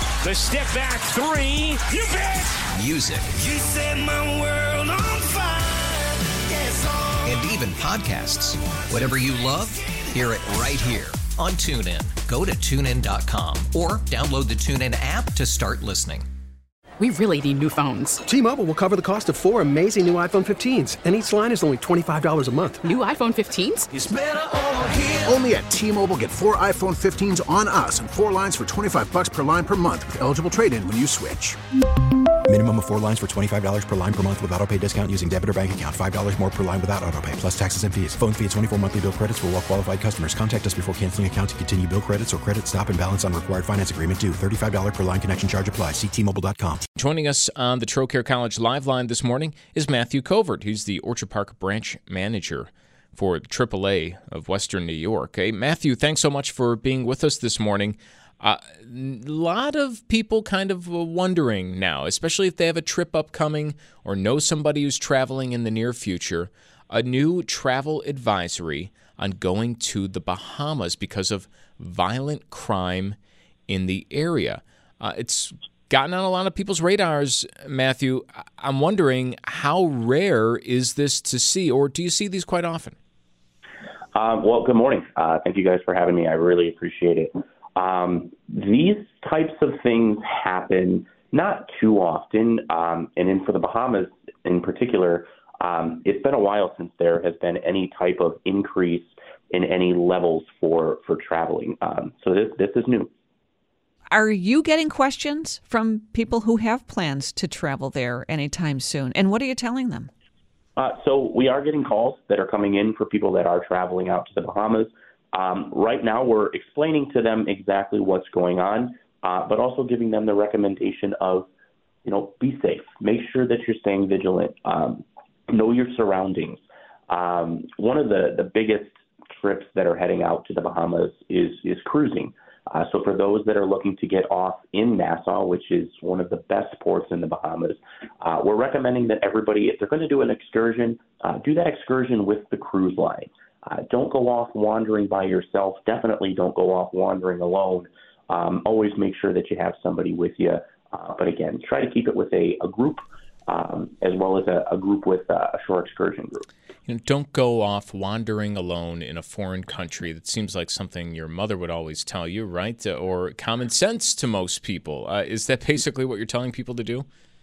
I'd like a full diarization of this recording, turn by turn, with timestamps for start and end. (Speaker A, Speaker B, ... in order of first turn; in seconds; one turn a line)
Speaker A: 0.2-2.5
Speaker B: 2.7-3.4
Speaker C: 3.4-7.2
Speaker B: 7.2-16.2
Speaker D: 17.0-18.1
Speaker E: 18.3-22.9
Speaker D: 22.9-23.8
Speaker F: 24.0-31.6
Speaker G: 32.5-46.9
Speaker H: 47.0-73.2
Speaker H: 73.7-82.9
Speaker I: 84.1-103.1
Speaker J: 104.1-110.1
Speaker I: 110.8-121.5
Speaker I: 122.0-156.5
Speaker H: 156.9-167.1